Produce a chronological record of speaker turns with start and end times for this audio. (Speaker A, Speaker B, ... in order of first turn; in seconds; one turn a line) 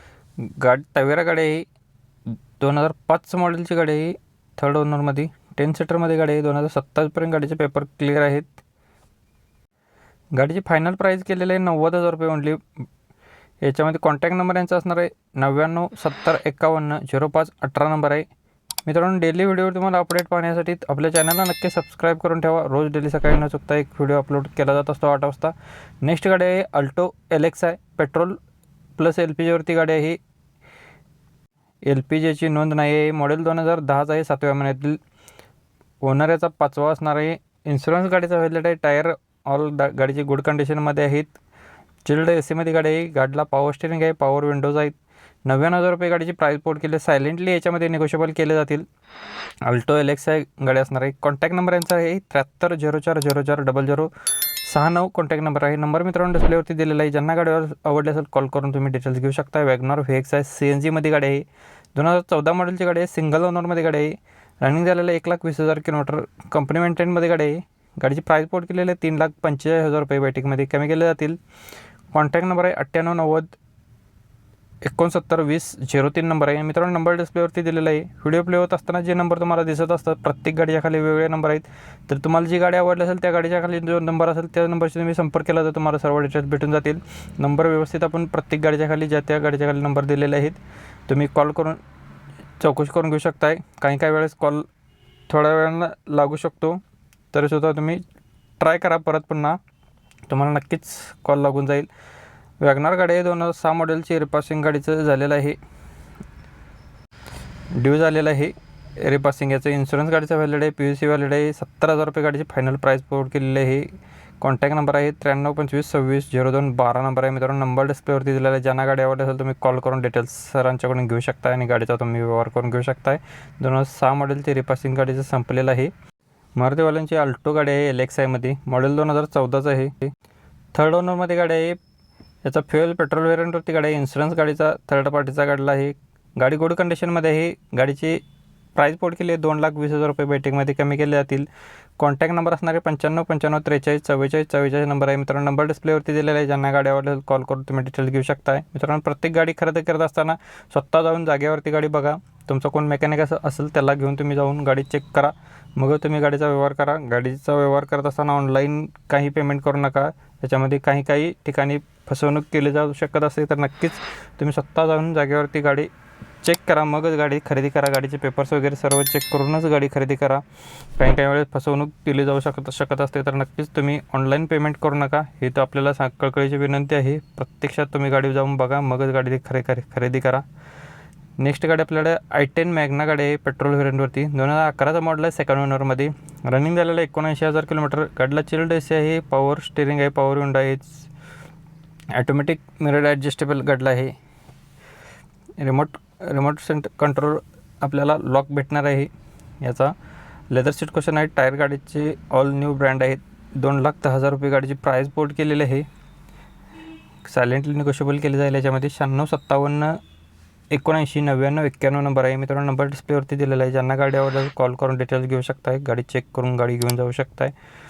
Speaker A: 0.4-1.7
Speaker A: 2.6-8.6
Speaker A: 10.3-12.8
Speaker A: 13.6-18.3
Speaker A: 18.9-28.4
Speaker A: 29.0-30.2
Speaker A: 31.8-35.0
Speaker A: 36.0-41.3
Speaker A: 42.0-44.9
Speaker A: 45.5-48.8
Speaker A: 49.6-54.1
Speaker A: 54.6-71.4
Speaker A: 72.1-73.5
Speaker A: 74.8-91.8
Speaker A: 92.6-94.7
Speaker A: 95.3-96.8
Speaker A: 97.3-98.0
Speaker A: 98.6-99.6
Speaker A: 100.3-101.9
Speaker A: 102.6-105.6
Speaker A: 107.8-125.9
Speaker A: 126.5-130.1
Speaker A: 130.7-131.8
Speaker A: 132.4-138.2
Speaker A: 138.7-141.5
Speaker A: 142.0-165.9
Speaker A: 166.4-170.4
Speaker A: 171.0-180.4
Speaker A: 181.4-191.1
Speaker A: 192.1-194.1
Speaker A: 195.6-199.1
Speaker A: 199.6-199.9
Speaker A: 200.5-205.9
Speaker A: 207.2-210.0
Speaker A: 210.7-217.5